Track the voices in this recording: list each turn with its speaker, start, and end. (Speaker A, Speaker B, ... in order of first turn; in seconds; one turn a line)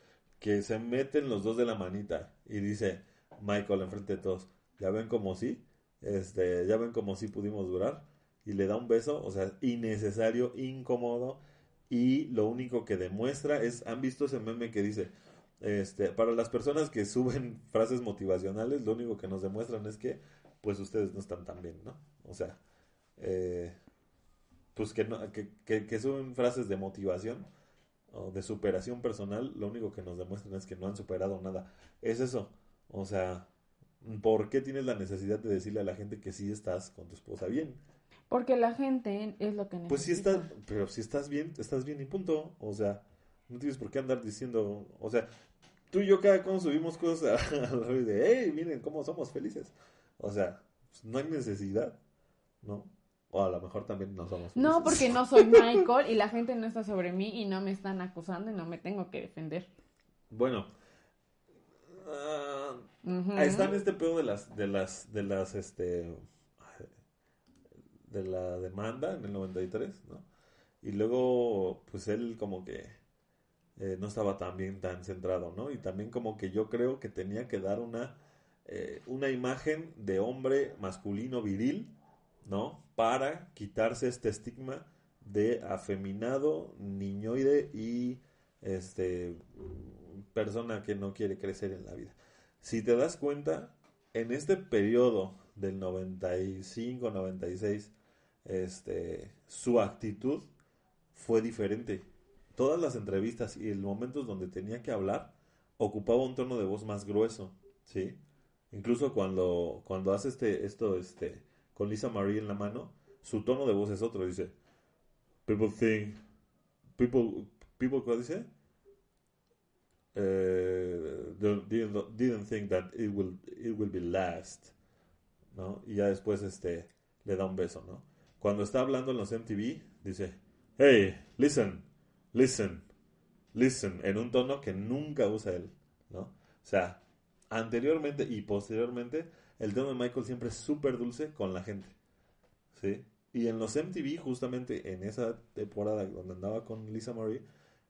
Speaker A: 0.4-22.6
Speaker A: 23.2-23.8
Speaker A: 24.8-27.5
Speaker A: 28.1-33.5
Speaker A: 34.0-37.8
Speaker B: 38.3-40.5
Speaker A: 39.9-45.3
Speaker A: 45.9-52.0
Speaker A: 52.6-55.9
Speaker B: 54.5-59.7
Speaker A: 60.3-60.7
Speaker A: 61.9-66.9
Speaker B: 63.0-63.8
Speaker A: 68.1-70.3
Speaker A: 70.8-73.0
Speaker A: 73.8-81.9
Speaker A: 82.4-100.5
Speaker A: 101.1-108.2
Speaker A: 108.7-114.5
Speaker A: 115.5-116.2
Speaker A: 117.0-118.5
Speaker A: 120.1-124.7
Speaker A: 125.5-132.9
Speaker A: 133.5-142.0
Speaker A: 142.7-147.4